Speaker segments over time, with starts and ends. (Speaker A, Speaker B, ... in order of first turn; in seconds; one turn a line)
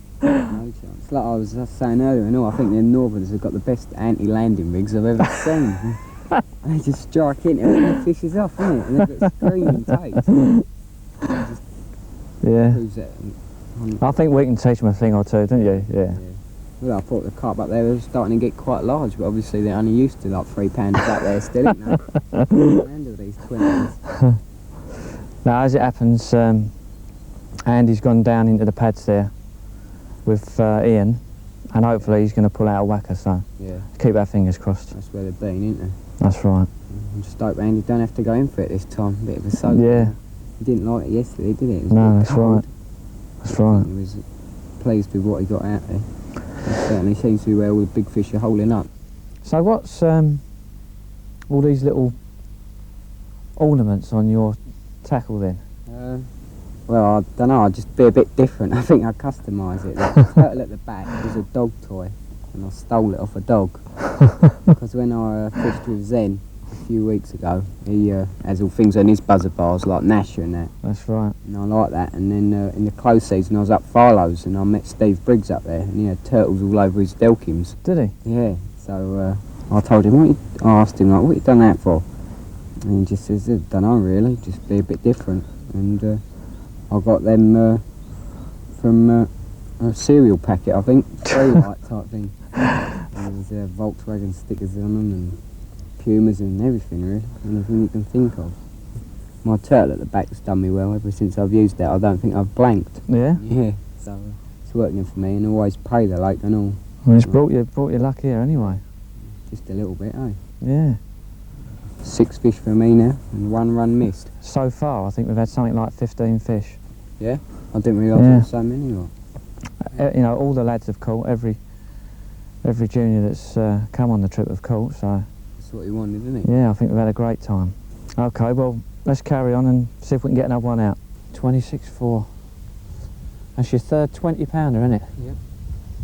Speaker A: 0.3-10.3
Speaker B: 10.3-10.6
Speaker A: 11.3-11.6
Speaker B: 12.4-12.8
Speaker A: 12.6-14.2
Speaker B: 14.0-16.2
Speaker A: 16.1-24.1
Speaker B: 25.4-26.7
Speaker B: 27.6-34.9
Speaker A: 33.6-33.9
Speaker A: 34.9-36.0
Speaker B: 36.2-36.7
Speaker A: 36.9-42.7
Speaker B: 39.7-40.1
Speaker B: 41.9-42.6
Speaker B: 43.4-43.9
Speaker A: 43.5-44.2
Speaker A: 44.8-48.9
Speaker B: 49.4-50.4
Speaker B: 51.5-52.1
Speaker B: 53.5-55.6
Speaker A: 55.9-56.3
Speaker A: 56.9-64.1
Speaker A: 64.6-70.7
Speaker B: 70.8-71.3
Speaker A: 71.4-82.0
Speaker B: 77.8-78.1
Speaker A: 82.8-86.2
Speaker A: 86.9-87.8
Speaker A: 88.7-95.4
Speaker A: 96.0-98.6
Speaker A: 99.4-107.4
Speaker B: 103.1-103.4
Speaker B: 107.0-108.8
Speaker A: 109.4-110.4
Speaker B: 110.6-111.0
Speaker A: 112.0-114.3
Speaker B: 114.4-116.8
Speaker A: 117.2-119.1
Speaker B: 118.1-118.5
Speaker B: 119.8-121.6
Speaker B: 122.6-125.3
Speaker A: 125.6-126.5
Speaker B: 126.4-132.3
Speaker B: 133.6-135.1